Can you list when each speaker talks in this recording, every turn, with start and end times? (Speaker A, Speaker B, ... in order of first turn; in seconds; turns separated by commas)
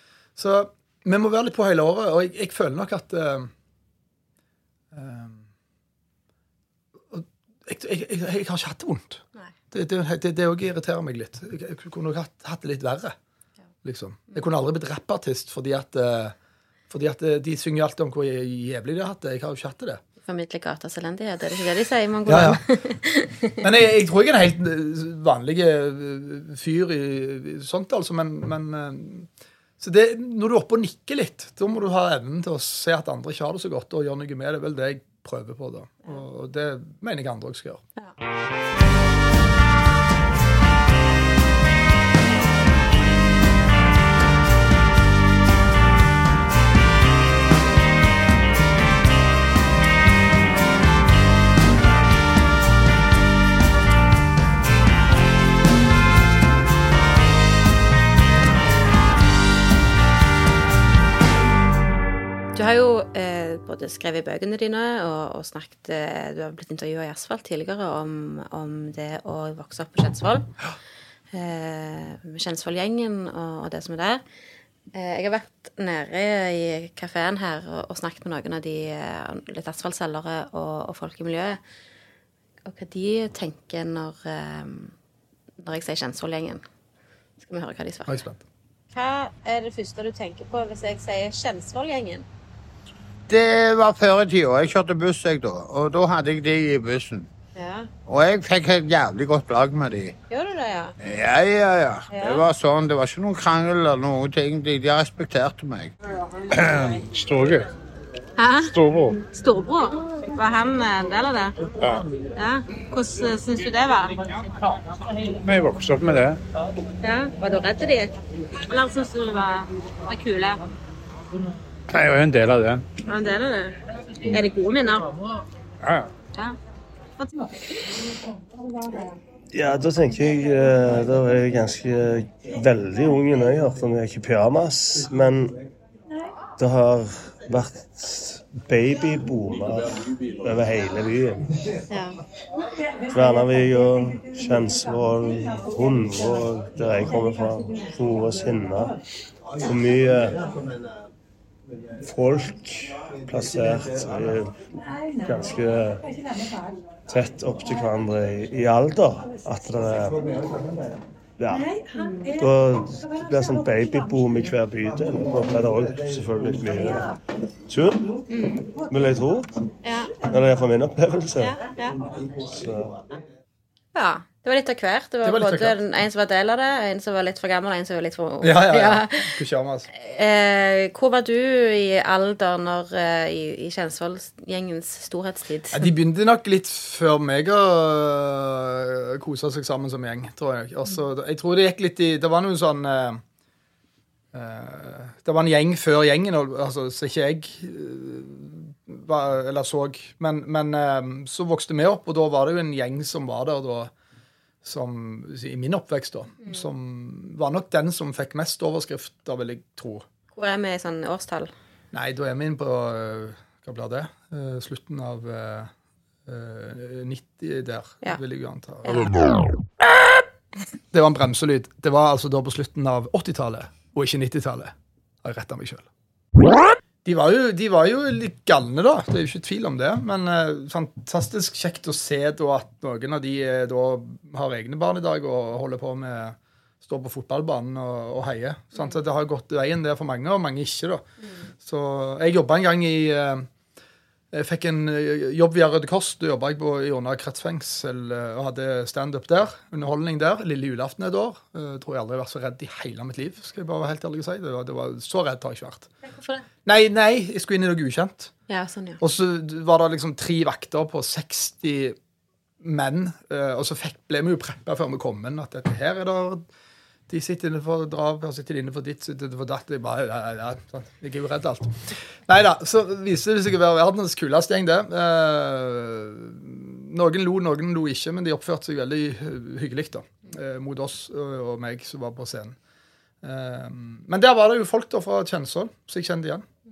Speaker A: 0.4-3.5, Speaker A: 4.9-5.5, Speaker A: 7.1-13.2, Speaker A: 13.8-16.4, Speaker A: 16.9-20.0, Speaker B: 20.3-23.6, Speaker A: 22.3-22.6, Speaker A: 23.6-37.8, Speaker B: 62.5-70.5, Speaker B: 71.3-74.2, Speaker B: 74.9-81.6, Speaker B: 82.7-85.0, Speaker B: 85.6-86.6, Speaker B: 87.4-88.2, Speaker A: 88.1-88.4, Speaker B: 88.9-92.3, Speaker C: 93.3-97.3, Speaker B: 97.6-97.9, Speaker C: 98.1-100.1, Speaker B: 100.3-100.9, Speaker C: 101.0-105.9, Speaker B: 102.1-102.4, Speaker D: 106.5-107.7, Speaker B: 108.4-108.7, Speaker D: 108.6-109.2, Speaker B: 109.2-111.6, Speaker B: 112.4-114.4, Speaker D: 115.3-116.4, Speaker B: 117.0-120.6, Speaker D: 121.9-122.8, Speaker B: 123.1-125.2, Speaker D: 125.8-126.1, Speaker B: 127.2-127.5, Speaker E: 129.5-135.6, Speaker E: 136.6-139.9, Speaker E: 140.4-141.4, Speaker B: 141.9-142.2, Speaker E: 143.1-148.9, Speaker E: 149.6-150.4, Speaker E: 152.0-154.6, Speaker E: 155.3-156.0, Speaker E: 157.1-160.2, Speaker E: 161.4-161.7, Speaker E: 162.4-167.1, Speaker E: 167.7-168.0, Speaker B: 168.3-168.6, Speaker E: 168.8-169.5, Speaker B: 169.8-170.1, Speaker E: 170.3-171.6, Speaker B: 171.4-172.0, Speaker E: 172.4-172.9, Speaker B: 173.9-179.3, Speaker A: 175.2-175.8, Speaker A: 178.4-179.9, Speaker B: 179.9-185.9, Speaker A: 185.7-193.2, Speaker A: 194.3-203.9, Speaker A: 204.6-210.1, Speaker B: 210.3-211.5, Speaker A: 211.9-215.7, Speaker A: 216.3-219.1, Speaker B: 218.8-219.2, Speaker A: 220.9-225.9, Speaker A: 227.1-243.5, Speaker A: 244.3-255.9, Speaker B: 256.1-256.4, Speaker A: 256.6-258.3, Speaker B: 258.5-259.0, Speaker A: 259.0-262.0, Speaker A: 262.6-266.5, Speaker A: 267.1-282.6, Speaker A: 283.2-286.5